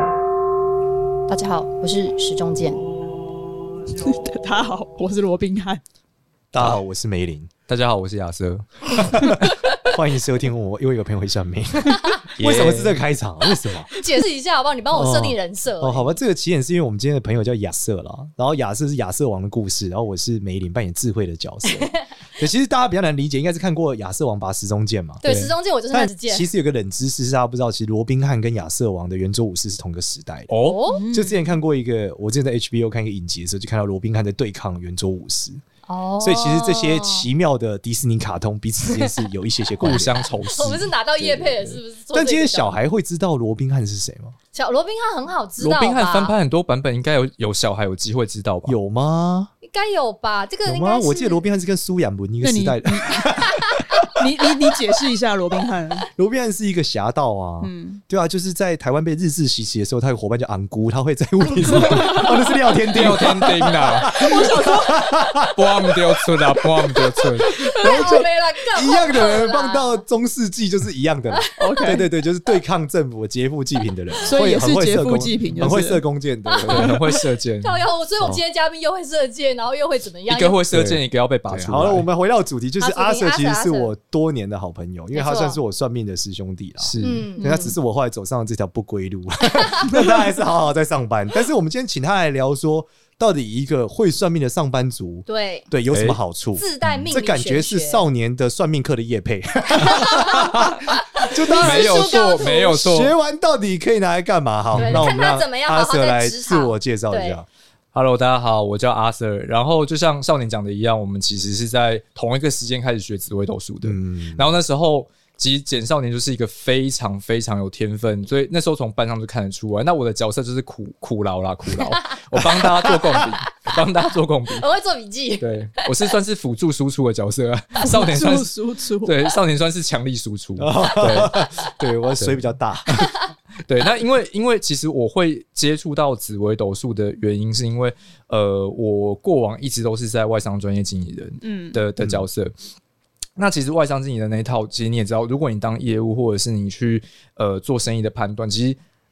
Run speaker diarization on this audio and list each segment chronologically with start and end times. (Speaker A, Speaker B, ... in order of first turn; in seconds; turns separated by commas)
Speaker A: 1.3-2.8, Speaker B: 3.9-5.8, Speaker C: 6.5-7.5, Speaker D: 7.7-9.3, Speaker C: 9.1-13.9, Speaker A: 11.9-12.2, Speaker D: 12.4-13.0, Speaker A: 13.9-16.2, Speaker C: 14.9-30.5, Speaker A: 25.2-26.5, Speaker D: 25.2-25.5, Speaker D: 30.5-30.8, Speaker A: 30.6-31.0, Speaker B: 30.9-31.4, Speaker C: 31.1-35.6, Speaker A: 35.9-37.3, Speaker C: 36.2-40.2, Speaker D: 39.8-41.8, Speaker A: 39.9-42.8, Speaker C: 42.1-44.3, Speaker A: 44.5-46.3, Speaker D: 45.6-48.8, Speaker C: 48.6-49.5, Speaker A: 49.6-51.4, Speaker C: 50.6-54.1, Speaker B: 52.4-53.4, Speaker B: 54.0-56.1, Speaker C: 56.1-77.0, Speaker B: 57.6-58.0, Speaker B: 61.7-62.5, Speaker D: 61.8-62.2, Speaker D: 62.8-64.3, Speaker B: 64.1-65.2, Speaker D: 65.5-67.6, Speaker A: 67.8-70.0, Speaker A: 71.3-72.0, Speaker B: 71.6-72.0, Speaker B: 74.2-76.0, Speaker A: 76.5-80.6, Speaker D: 76.6-77.8, Speaker D: 80.3-82.0, Speaker C: 80.7-107.5, Speaker A: 82.8-83.9, Speaker A: 85.1-85.6, Speaker D: 86.8-87.2, Speaker A: 87.0-87.7, Speaker A: 89.5-90.0, Speaker A: 95.3-95.7, Speaker D: 95.9-96.2, Speaker A: 96.5-98.0, Speaker A: 99.7-102.8, Speaker D: 101.6-103.1, Speaker D: 104.7-105.1, Speaker A: 104.8-107.4, Speaker D: 107.9-124.7, Speaker C: 113.8-114.5, Speaker C: 122.6-123.2, Speaker A: 124.6-125.8, Speaker D: 125.4-133.1, Speaker B: 127.8-129.3, Speaker C: 130.6-133.1, Speaker D: 133.6-142.5, Speaker B: 141.4-141.8, Speaker C: 142.0-142.2, Speaker D: 143.4-148.8